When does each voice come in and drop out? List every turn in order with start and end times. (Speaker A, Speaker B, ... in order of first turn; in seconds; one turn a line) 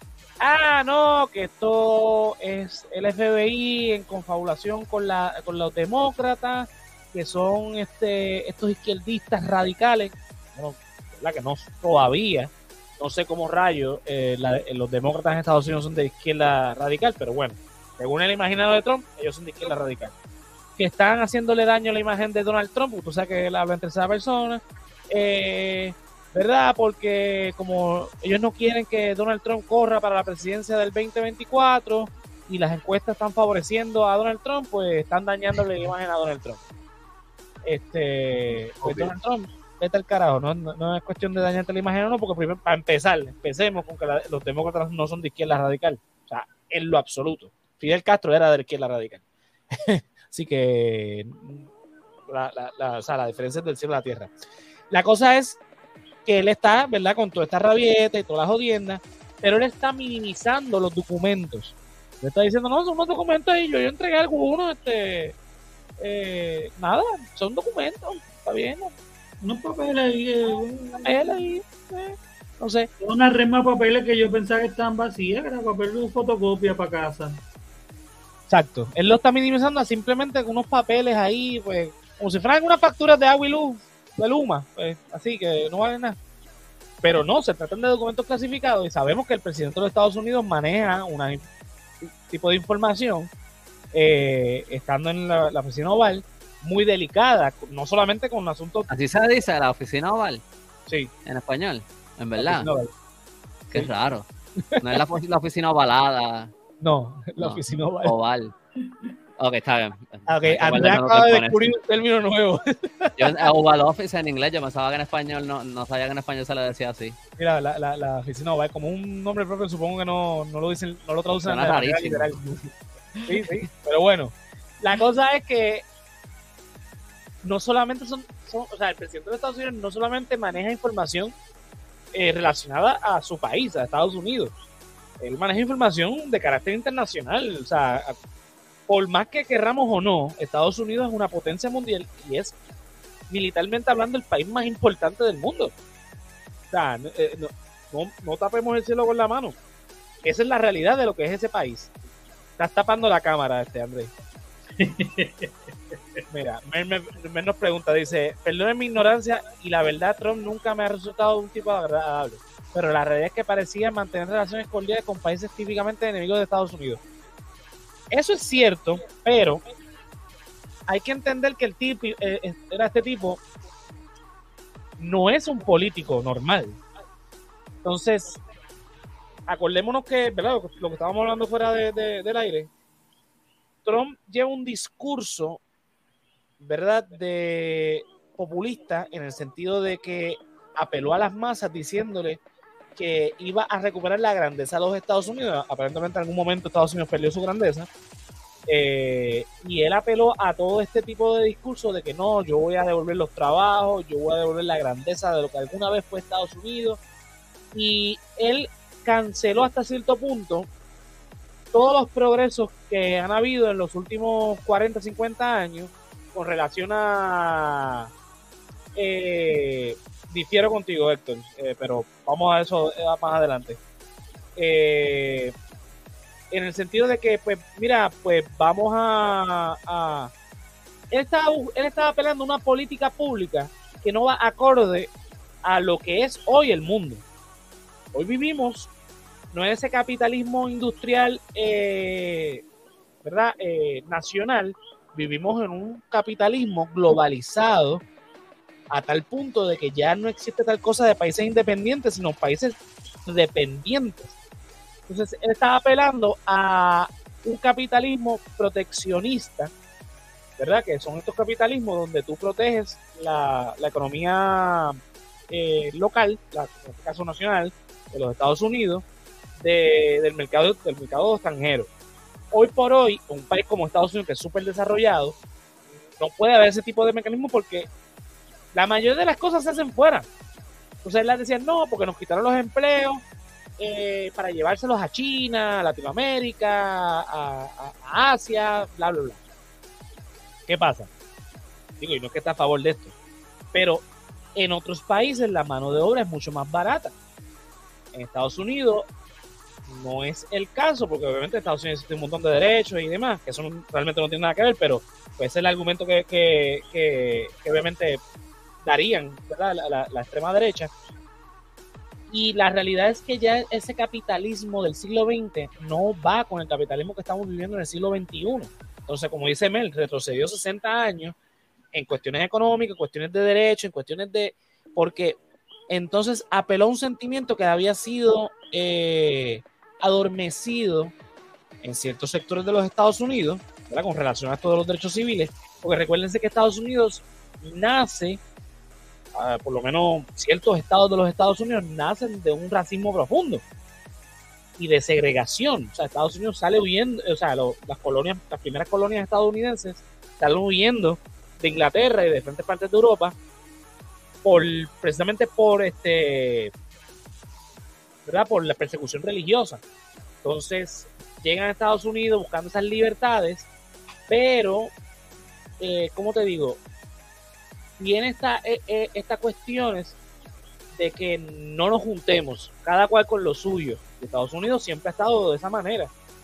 Speaker A: 0.4-20.1
Speaker A: 20.8-36.6
Speaker A: 37.7-49.2
Speaker B: 38.8-39.1
Speaker A: 49.7-51.7
Speaker A: 52.3-54.3
Speaker A: 54.9-55.6
Speaker A: 56.3-65.4
Speaker A: 66.0-69.0
Speaker B: 69.4-71.1
Speaker A: 71.0-72.9
Speaker B: 73.0-77.4
Speaker A: 78.5-86.2
Speaker A: 87.0-91.5
Speaker A: 92.0-93.3
Speaker A: 93.9-98.9
Speaker C: 98.9-100.4
Speaker C: 101.2-102.7
Speaker A: 102.4-102.9
Speaker C: 103.7-104.3
Speaker A: 104.6-105.0
Speaker C: 104.8-106.5
Speaker A: 106.8-108.1
Speaker C: 107.4-108.5
Speaker C: 109.4-111.7
Speaker A: 110.3-113.5
Speaker C: 113.2-117.2
Speaker A: 117.4-122.6
Speaker C: 121.5-122.7
Speaker A: 123.3-125.8
Speaker A: 127.4-131.3
Speaker A: 132.1-134.5
Speaker A: 135.2-138.2
Speaker A: 138.9-142.6
Speaker A: 143.3-145.7
Speaker A: 146.7-149.6
Speaker A: 150.2-151.9
Speaker A: 152.6-154.1
Speaker B: 154.8-156.2
Speaker A: 156.3-167.0
Speaker A: 168.1-169.6
Speaker A: 170.9-173.4
Speaker A: 175.0-176.8
Speaker A: 177.8-178.4
Speaker A: 179.5-182.7
Speaker A: 183.8-185.6
Speaker A: 186.6-192.4
Speaker A: 193.0-197.9
Speaker A: 198.7-207.0
Speaker A: 207.7-210.7
Speaker A: 211.7-218.1
Speaker A: 218.9-223.8
Speaker A: 224.6-225.5
Speaker A: 226.5-230.3
Speaker A: 231.1-235.1
Speaker A: 235.7-237.2
Speaker A: 238.1-238.9
Speaker A: 239.5-242.6
Speaker A: 243.2-248.0
Speaker A: 248.9-254.4
Speaker A: 255.1-259.7
Speaker A: 260.6-265.0
Speaker A: 265.5-269.0
Speaker A: 269.6-271.9
Speaker A: 272.5-275.4
Speaker A: 276.2-277.9
Speaker A: 278.7-280.3
Speaker A: 281.0-283.2
Speaker A: 283.8-289.4
Speaker A: 290.7-291.1
Speaker A: 292.0-293.1
Speaker A: 293.7-297.1
Speaker A: 298.1-299.1
Speaker A: 299.9-308.2
Speaker A: 308.8-310.9
Speaker A: 312.3-321.4
Speaker A: 321.9-325.4
Speaker A: 325.9-331.1
Speaker A: 331.8-338.4
Speaker A: 339.4-343.6
Speaker A: 344.8-353.4
Speaker A: 354.4-356.7
Speaker A: 358.3-359.8
Speaker A: 360.4-363.7
Speaker A: 364.3-364.9
Speaker A: 365.8-366.8
Speaker A: 368.0-370.2
Speaker A: 370.9-376.1